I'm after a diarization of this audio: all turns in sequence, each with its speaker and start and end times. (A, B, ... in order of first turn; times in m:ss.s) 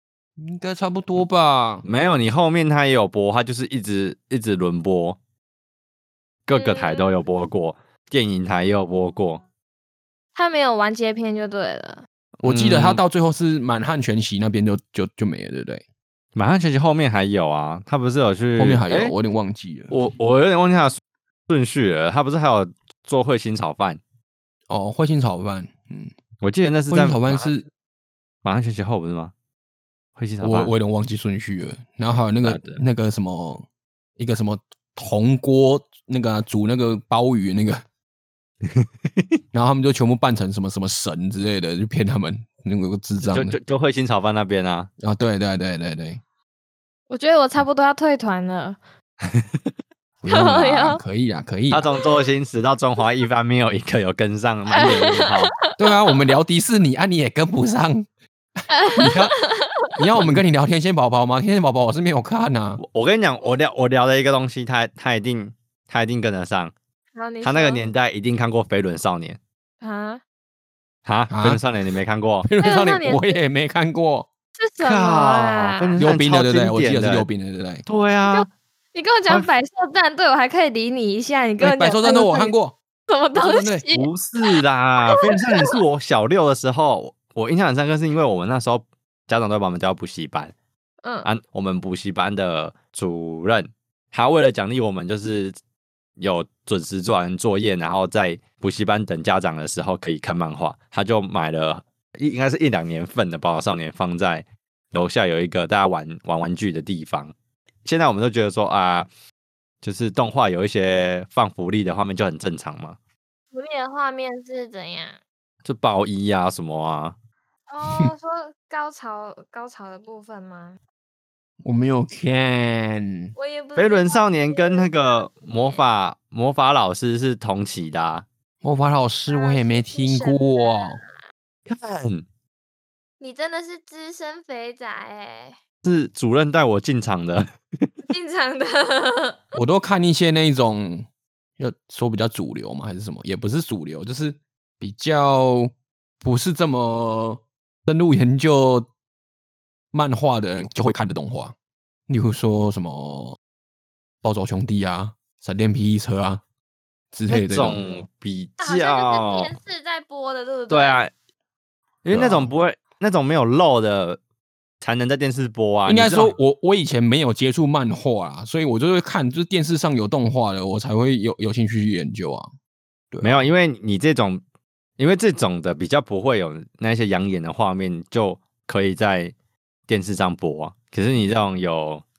0:00.4-0:01.8 A
0:01.8-0:05.2 B
0:06.5-0:09.4 B
0:06.5-0:07.1 C
0:10.3-0:12.0 C
0:12.4-0:13.0 B
0:12.4-0:15.8 A
0:16.3-0:19.1 B
0:18.6-0:19.9 A
0:19.9-0:21.0 B
0:21.5-0:24.0 B
0:24.7-0:26.1 A
0:26.4-0:27.5 B
0:26.9-0:27.7 A
0:28.4-0:29.3 B
0:30.2-0:30.7 B
0:30.4-0:33.6 A
0:32.4-0:32.8 B
0:34.2-0:37.8 A
0:38.6-0:39.2 B
0:39.5-0:43.6 A
0:43.2-0:44.9 B
0:45.0-0:46.2 A
0:47.1-0:48.8 C
0:49.2-0:49.6 B
0:50.2-0:51.9 A
0:50.3-0:51.0 C
0:51.7-0:55.5 B
0:54.7-0:56.1 C
0:55.8-0:58.1 A
0:58.7-1:00.0 C
0:58.9-0:59.3 A
1:00.0-1:02.8 A
1:02.8-1:06.7 B
1:07.1-1:07.8 C
1:07.4-1:09.4 B
1:09.8-1:10.2 C
1:11.0-1:12.5 B
1:11.3-1:11.6 A
1:12.4-1:14.3 A
1:12.6-1:13.4 C
1:14.6-1:16.0 C
1:14.8-1:17.2 B
1:16.0-1:17.8 A
1:17.9-1:18.5 B
1:18.3-1:22.5 C
1:21.6-1:22.8 A
1:23.1-1:25.8 C
1:23.3-1:23.8 A
1:23.9-1:30.5 B
1:31.0-1:31.3 C
1:31.2-1:35.5 B
1:36.2-1:47.3 B
1:47.8-1:49.1 B
1:49.8-1:53.0 B
1:53.5-1:55.2 C
1:55.6-1:57.2 B
1:57.7-2:00.8 C
2:01.6-2:03.3 A
2:03.4-2:05.7 C
2:03.8-2:08.2 B
2:08.6-2:11.0 A
2:09.3-2:11.0 C
2:11.6-2:12.2 B
2:13.2-2:15.6 C
2:15.8-2:17.9 B
2:18.1-2:19.6 C
2:19.5-2:21.1 A
2:21.6-2:28.9 A
2:29.9-2:31.5 A
2:32.1-2:33.4 A
2:34.2-2:36.4 A
2:37.1-2:37.8 A
2:37.3-2:39.5 B
2:38.6-2:41.0 C
2:40.7-2:41.1 B
2:42.0-2:44.2 B
2:42.1-2:42.5 A
2:44.8-2:46.3 B
2:45.8-2:52.5 A
2:53.1-2:53.4 A
2:53.2-2:54.4 B
2:55.0-2:59.3 B
2:59.9-3:02.0 B